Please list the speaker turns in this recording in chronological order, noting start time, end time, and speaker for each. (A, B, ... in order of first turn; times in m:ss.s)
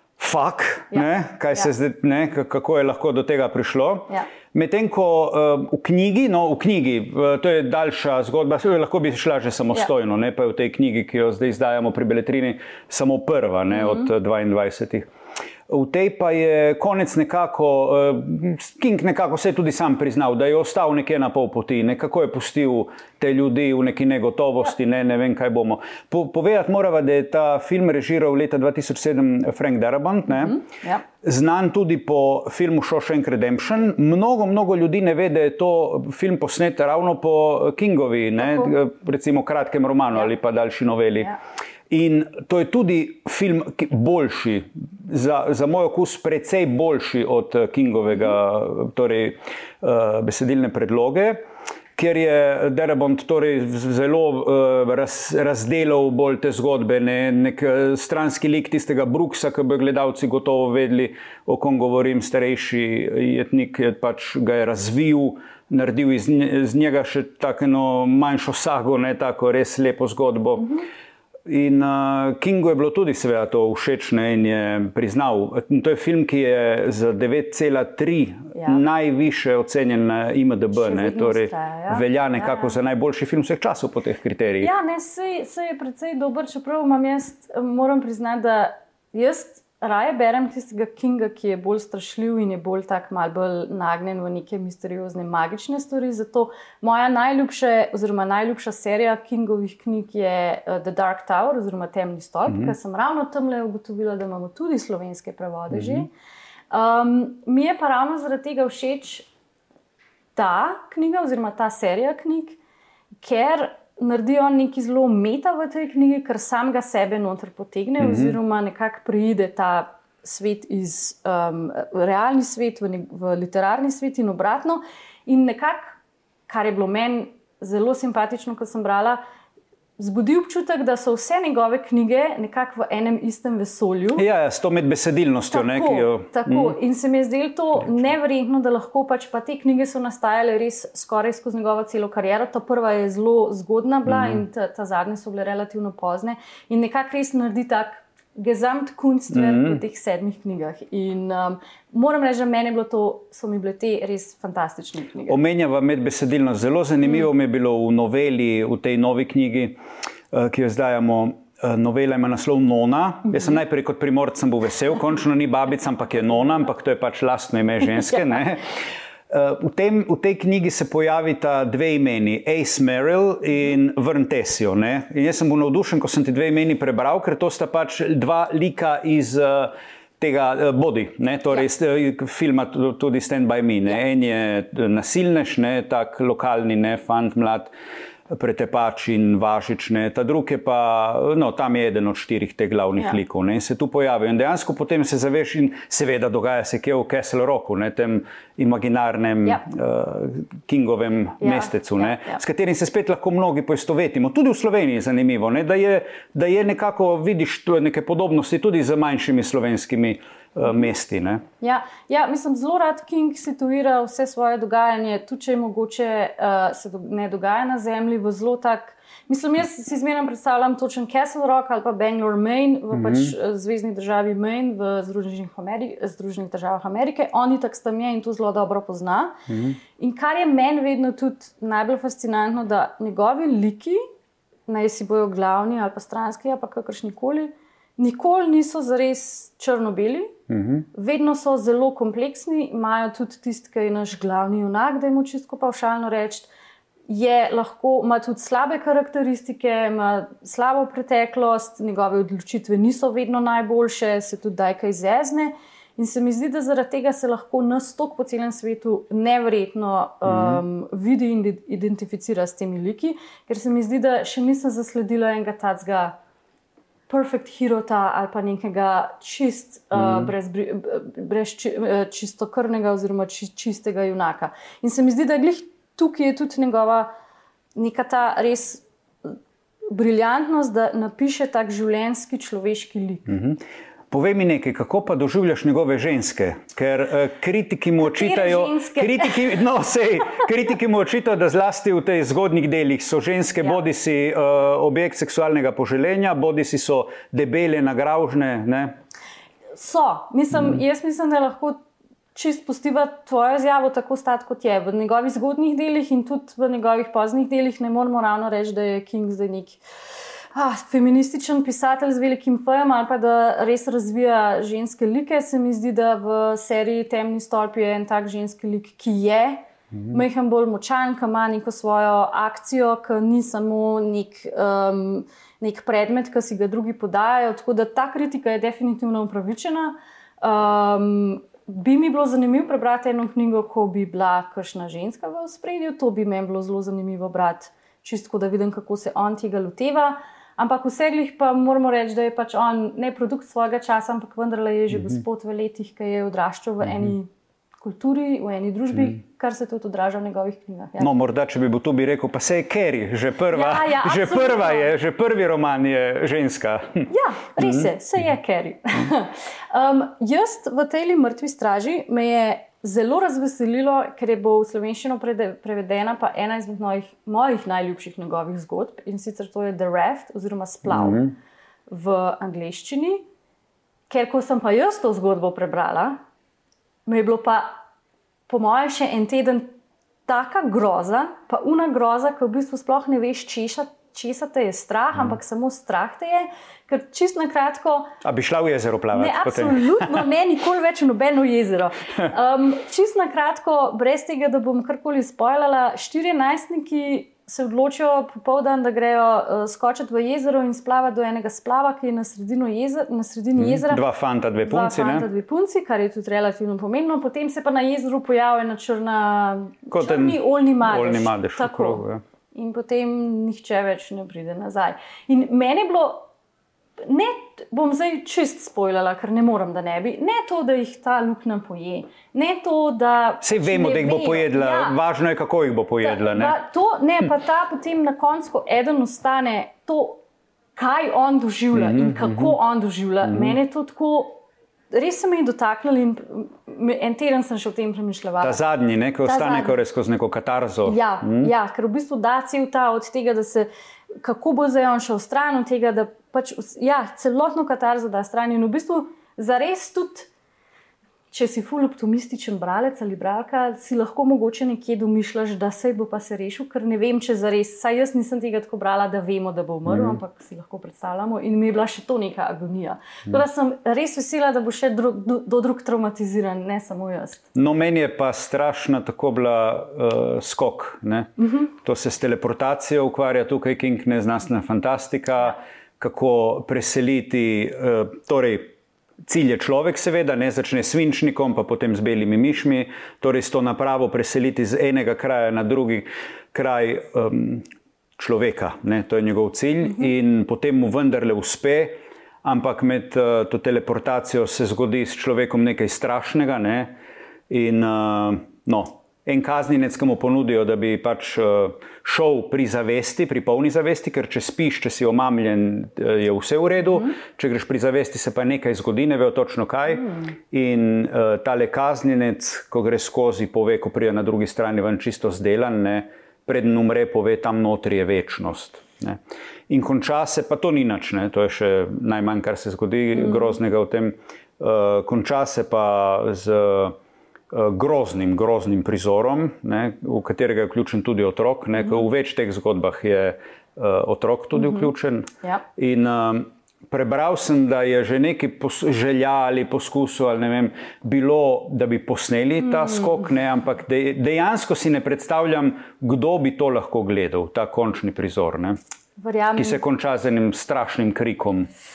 0:00.2-0:15.0 A
0:00.9-0:01.7 B
0:15.7-0:30.6 A
0:30.3-0:31.0 B
0:31.2-0:41.4 A
0:38.4-0:38.7 B
0:41.9-0:51.4 A
0:51.9-1:10.8 A
1:11.5-1:24.7 A
1:18.5-1:18.8 B
1:20.7-1:22.8 B
1:24.6-1:46.1 B
1:42.5-1:42.7 A
1:45.7-1:46.0 A
1:46.7-1:49.3 B
1:50.3-1:52.6 B
1:53.2-2:06.0 B
1:58.0-1:58.4 A
2:06.5-2:09.2 B
2:10.0-2:14.2 B
2:14.2-2:16.8 A
2:15.5-2:35.4 B
2:24.0-2:24.4 A
2:29.3-2:29.8 A
2:35.2-2:39.8 A
2:40.3-2:48.7 A
2:49.3-3:07.7 A
3:08.3-3:31.4 A
3:21.4-3:22.4 B
3:31.6-3:49.4 B
3:42.9-3:43.3 A
3:49.5-3:49.8 A
3:50.0-3:54.0 B
3:54.7-4:00.3 B
4:00.5-4:00.8 A
4:00.9-4:06.5 B
4:07.1-4:26.1 B
4:20.2-4:20.6 A
4:27.1-4:37.1 B
4:29.9-4:30.3 A
4:37.7-4:38.8 B
4:39.9-4:43.4 B
4:43.3-4:43.6 A
4:44.1-4:58.9 A
4:48.0-4:49.6 B
4:59.7-5:01.8 B
5:02.3-5:09.8 B
5:10.5-5:51.1 B
5:19.9-5:20.2 A
5:46.8-5:47.1 A
5:51.0-5:57.9 A
5:53.5-5:54.9 B
5:57.1-6:11.3 B
6:10.8-6:11.3 A
6:11.9-6:13.2 B
6:14.1-6:16.2 B
6:17.0-6:17.8 B
6:18.5-6:19.7 B
6:20.2-6:28.1 B
6:28.2-6:30.2 A
6:29.1-6:44.0 B
6:43.6-6:45.3 A
6:44.6-6:56.2 B
6:49.9-6:52.2 A
6:57.0-7:05.0 B
7:03.4-7:06.6 A
7:06.0-7:10.2 B
7:10.7-7:18.6 B
7:11.7-7:12.6 A
7:13.2-7:13.6 A
7:18.4-7:21.5 A
7:19.2-7:19.8 B
7:20.8-7:23.7 B
7:24.2-7:30.3 B
7:31.3-7:47.4 B
7:39.8-7:40.2 A
7:47.5-7:58.7 A
7:59.2-8:07.6 A
8:08.2-8:16.9 A
8:17.5-8:47.0 A
8:47.5-9:08.8 A
8:54.6-8:54.9 B
9:02.8-9:03.2 B
9:09.2-9:09.8 B
9:09.5-9:11.7 A